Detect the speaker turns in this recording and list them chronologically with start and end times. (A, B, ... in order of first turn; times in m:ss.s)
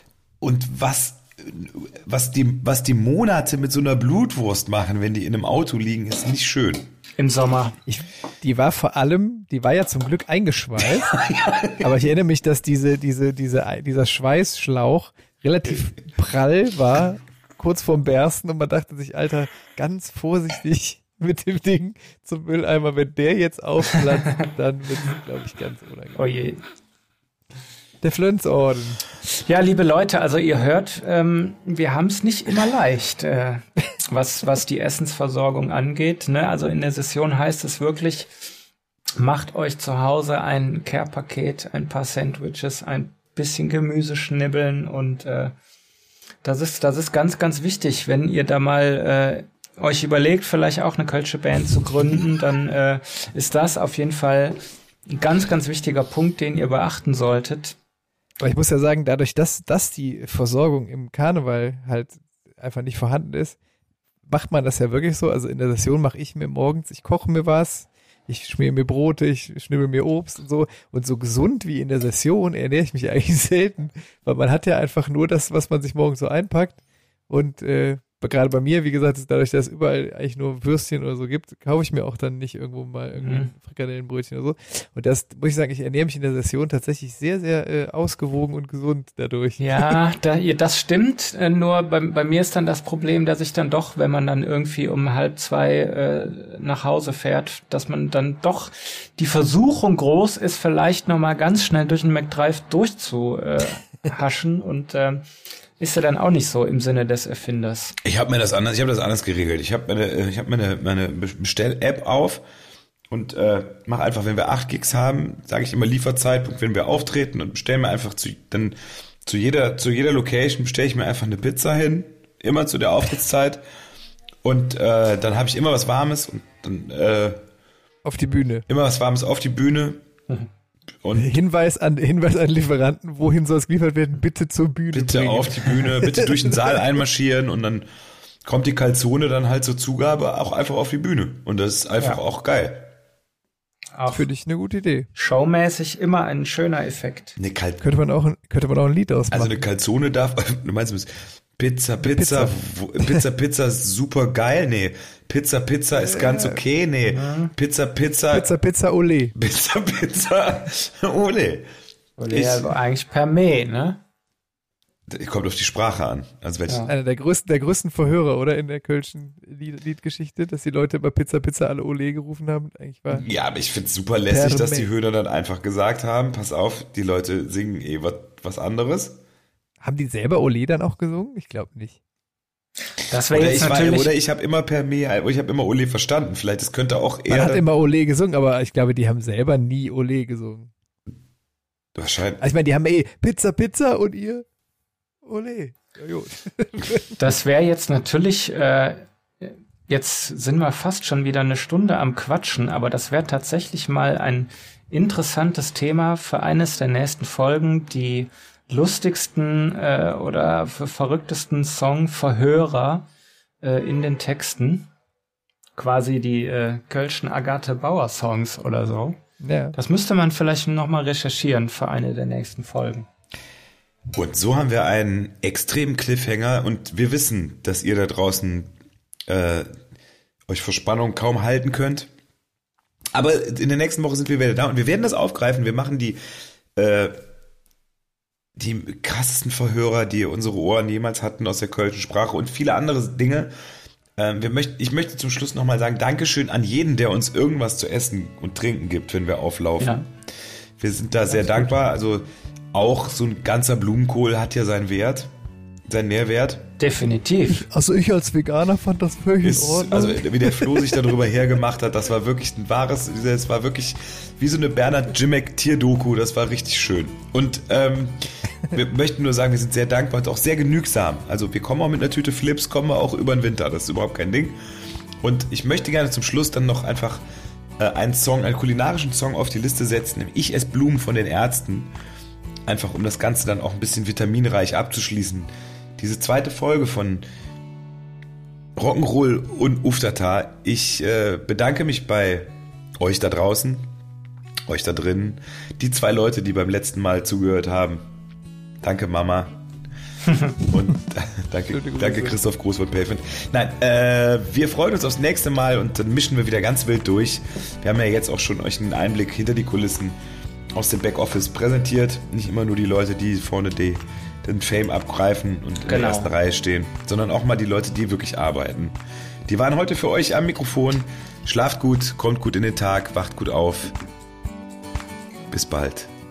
0:00.4-0:06.9 A
0:07.2-0:07.8 B
0:07.9-0:11.1 C
0:10.9-0:11.9 A
0:11.8-0:26.2 C
0:26.2-0:26.6 B
0:28.0-0:29.0 C
0:29.3-0:38.3 B
0:39.2-0:45.5 B
0:46.4-0:54.6 B
0:55.1-0:57.8 B
0:58.4-1:03.6 C
1:04.3-1:30.0 C
1:23.2-1:23.5 B
1:29.6-1:45.2 B
1:45.8-1:48.0 B
1:48.0-1:52.4 A
1:53.1-2:03.6 A
2:04.4-2:07.4 A
2:08.0-2:08.7 C
2:08.7-2:10.0 A
2:11.0-2:11.3 A
2:11.2-2:16.6 C
2:14.9-2:17.8 A
2:18.4-2:22.9 A
2:23.9-2:24.3 B
2:24.1-2:25.1 C
2:25.2-2:27.4 B
2:27.4-2:27.8 A
2:27.8-2:29.6 C
2:29.3-2:38.5 A
2:32.0-2:33.2 C
2:36.0-2:36.6 C
2:37.1-2:37.5 B
2:38.3-2:39.3 C
2:39.4-2:41.7 A
2:42.2-2:44.0 B
2:42.3-2:42.7 A
2:45.1-2:46.9 A
2:46.9-2:53.2 C
2:53.1-2:59.2 A
2:54.3-2:54.9 C
2:59.8-3:02.0 C
3:03.1-3:04.1 B
3:03.3-3:07.6 A
3:07.3-3:10.7 C
3:12.0-3:12.4 A
3:12.4-3:14.4 C
3:15.2-3:17.2 C
3:17.2-3:33.0 B
3:33.6-3:34.9 B
3:35.8-3:39.2 B
3:39.4-3:39.8 C
3:39.7-3:43.1 B
3:44.1-3:48.7 A
3:49.3-3:49.7 A
3:50.5-3:52.1 A
3:53.1-3:56.2 A
3:56.8-3:57.2 A
3:58.6-4:03.5 A
4:04.2-4:10.0 A
4:09.8-4:10.0 B
4:10.8-4:15.3 A
4:15.9-4:16.6 A
4:16.8-4:17.6 B
4:17.5-4:20.8 C
4:19.4-4:28.2 A
4:28.7-4:34.6 A
4:35.2-4:37.2 A
4:37.8-4:41.9 A
4:42.7-4:47.2 A
4:48.8-4:53.9 A
4:54.7-4:58.0 A
4:58.8-4:59.6 A
5:00.6-5:10.2 A
5:01.7-5:02.4 C
5:10.8-5:19.0 A
5:15.9-5:16.3 B
5:19.5-5:24.0 A
5:25.5-5:26.1 A